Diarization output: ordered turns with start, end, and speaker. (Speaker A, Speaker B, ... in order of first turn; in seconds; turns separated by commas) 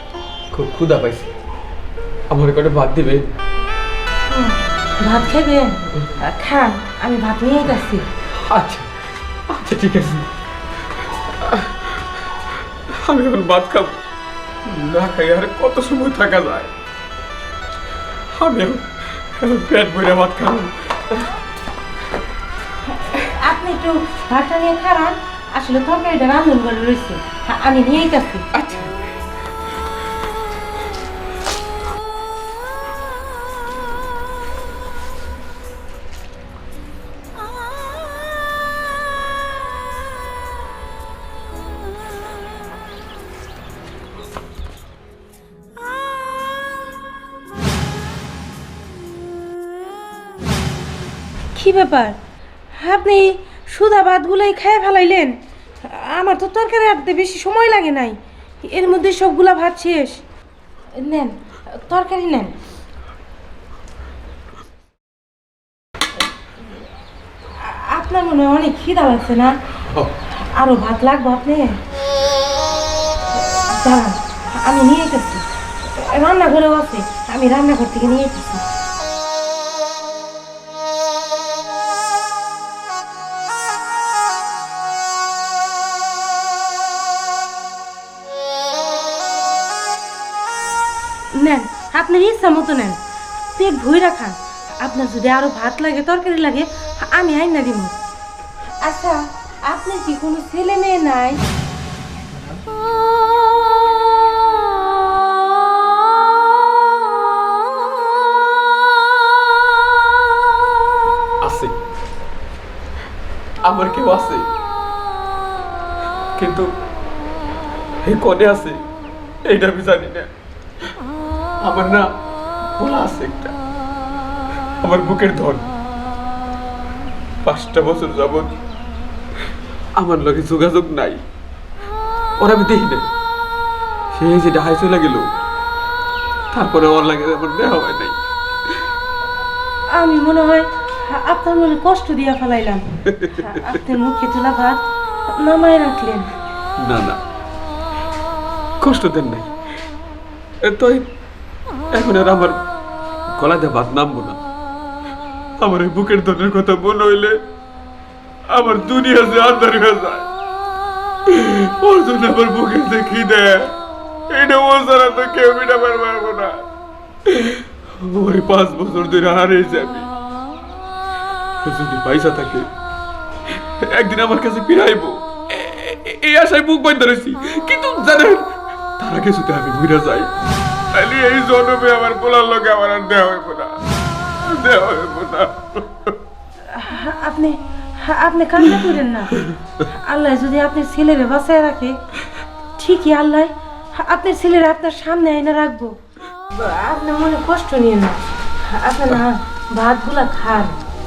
Speaker A: 0.5-1.3, Speaker A: 2.3-3.3, Speaker B: 4.3-8.0, Speaker A: 8.5-8.9, Speaker A: 9.5-10.3, Speaker A: 11.4-12.2, Speaker A: 12.9-14.0, Speaker A: 14.6-16.7, Speaker A: 18.3-21.3, Speaker B: 23.1-28.4, Speaker A: 28.5-28.9, Speaker B: 51.5-52.1, Speaker B: 52.8-60.2, Speaker B: 61.0-62.5, Speaker B: 67.6-69.5, Speaker A: 69.9-70.1, Speaker B: 70.5-71.8, Speaker B: 73.4-78.6, Speaker B: 91.3-93.0, Speaker B: 93.5-97.9, Speaker B: 98.8-101.4, Speaker A: 111.4-111.7, Speaker A: 113.6-114.5, Speaker A: 116.3-116.7, Speaker A: 118.0-118.8, Speaker A: 119.5-120.3, Speaker A: 121.6-122.0, Speaker A: 122.8-123.5, Speaker A: 124.8-125.7, Speaker A: 127.4-128.5, Speaker A: 129.9-131.2, Speaker A: 132.4-133.1, Speaker A: 134.1-135.3, Speaker A: 136.5-138.2, Speaker B: 139.9-144.8, Speaker A: 143.1-143.4, Speaker B: 145.3-146.3, Speaker A: 146.8-147.2, Speaker A: 148.8-149.5, Speaker A: 150.6-151.0, Speaker A: 151.9-152.6, Speaker A: 153.4-154.4, Speaker A: 155.6-157.3, Speaker A: 158.5-160.3, Speaker A: 161.3-163.7, Speaker A: 164.3-166.6, Speaker A: 167.2-170.1, Speaker A: 171.6-172.7, Speaker A: 173.5-180.3, Speaker A: 180.9-186.2, Speaker B: 186.7-191.9, Speaker B: 192.8-195.9, Speaker B: 196.5-200.7